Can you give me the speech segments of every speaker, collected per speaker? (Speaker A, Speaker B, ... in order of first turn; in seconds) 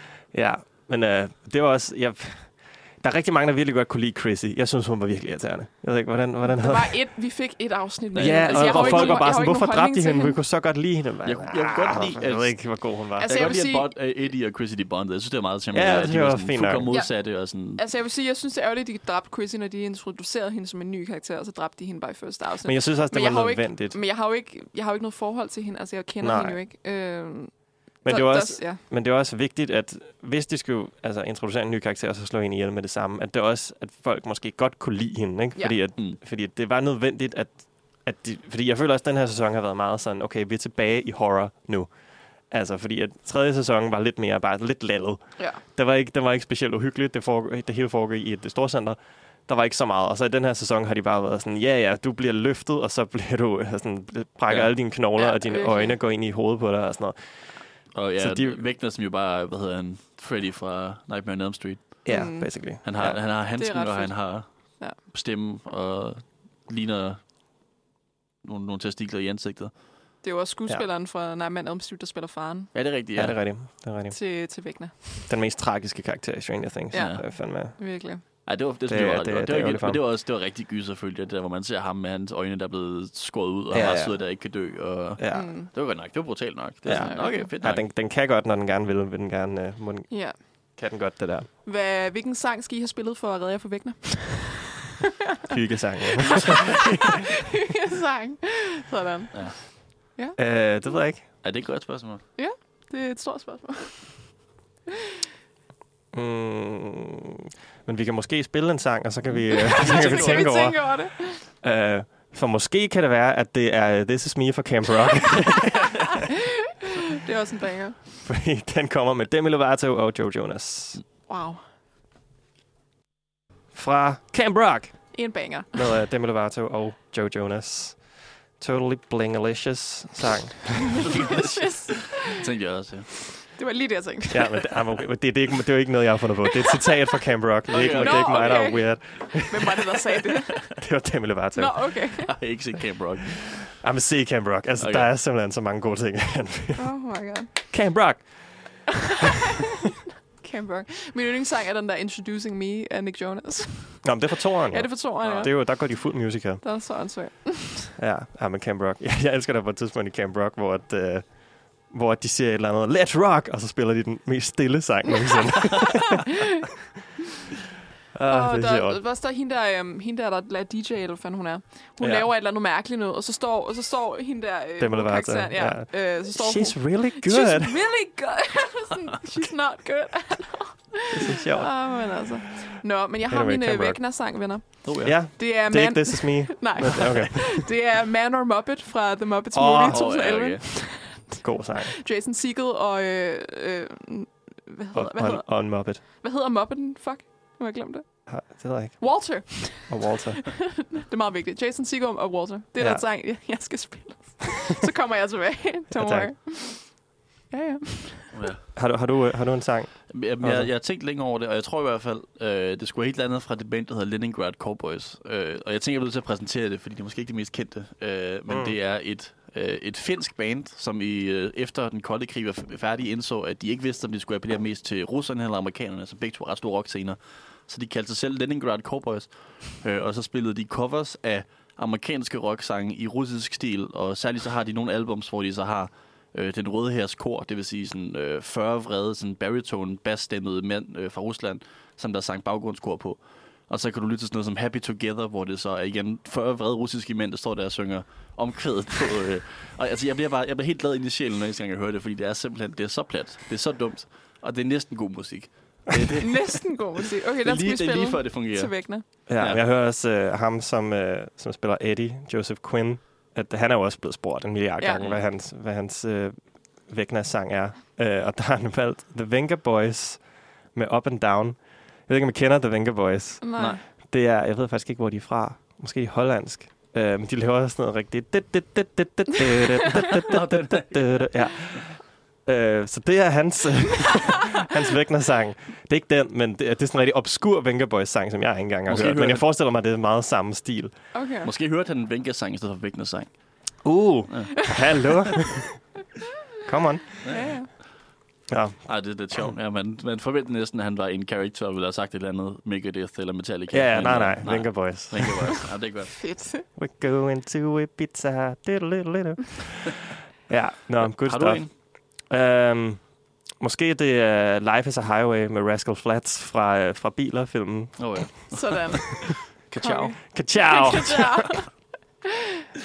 Speaker A: 0.3-7.1, 8.2-13.3, 15.7-16.9, 22.6-24.0, 26.2-26.6, 28.0-58.6, 62.0-63.4, 73.1-74.2, 75.3-80.0, 83.7-85.5, 86.8-91.5, 95.5-96.9, 100.4-101.3, 106.1-115.9, 118.2-121.0, 123.7-131.1, 134.3-139.9, 140.6-142.1, 143.7-147.1, 147.7-148.9, 154.0-156.6, 158.0-166.2, 168.1-169.0, 172.0-172.3, 174.8-177.8, 181.1-182.2, 183.2-187.7, 189.5-190.3, 191.4-191.9, 194.9-196.0, 198.3-200.7, 202.8-203.1, 205.9-206.3, 208.7-210.7, 218.5-218.8, 259.3-291.1, 293.8-295.9, 296.7-297.1, 298.5-299.5, 303.7-305.6, 306.7-318.5, 319.7-321.6
Speaker B: 6.5-10.4, 13.2-13.9, 16.9-28.8, 55.1-56.0, 62.1-65.0, 70.2-72.7, 74.1-75.3, 76.9-78.2, 85.3-86.3, 87.0-87.5, 90.1-90.8, 91.6-94.9, 97.5-100.8, 102.4-104.5, 109.5-111.5, 117.2-118.0, 121.3-121.6, 125.1-125.8, 131.1-132.4, 133.4-134.7, 137.7-140.9, 141.6-142.4, 146.8-147.6, 150.4-157.9, 168.3-208.3, 256.2-259.1, 264.8-265.0, 273.4-273.8, 291.1-291.5, 297.3-297.7, 306.2-306.7, 318.5-321.9
Speaker C: 8.1-9.3, 11.2-17.8, 54.5-54.7, 57.9-67.2, 68.4-69.8, 72.7-73.6, 76.9-77.2, 78.5-87.9, 101.4-102.3, 109.8-110.5, 131.0-133.3, 137.7-138.9, 142.1-143.7, 144.8-145.1, 155.2-155.5, 184.8-185.2, 189.9-190.6, 208.3-208.6, 210.1-256.8, 257.4-259.6, 280.3-281.3, 288.9-289.5, 291.4-294.5, 297.2-297.8, 298.9-306.3, 311.0-311.7, 318.0-320.0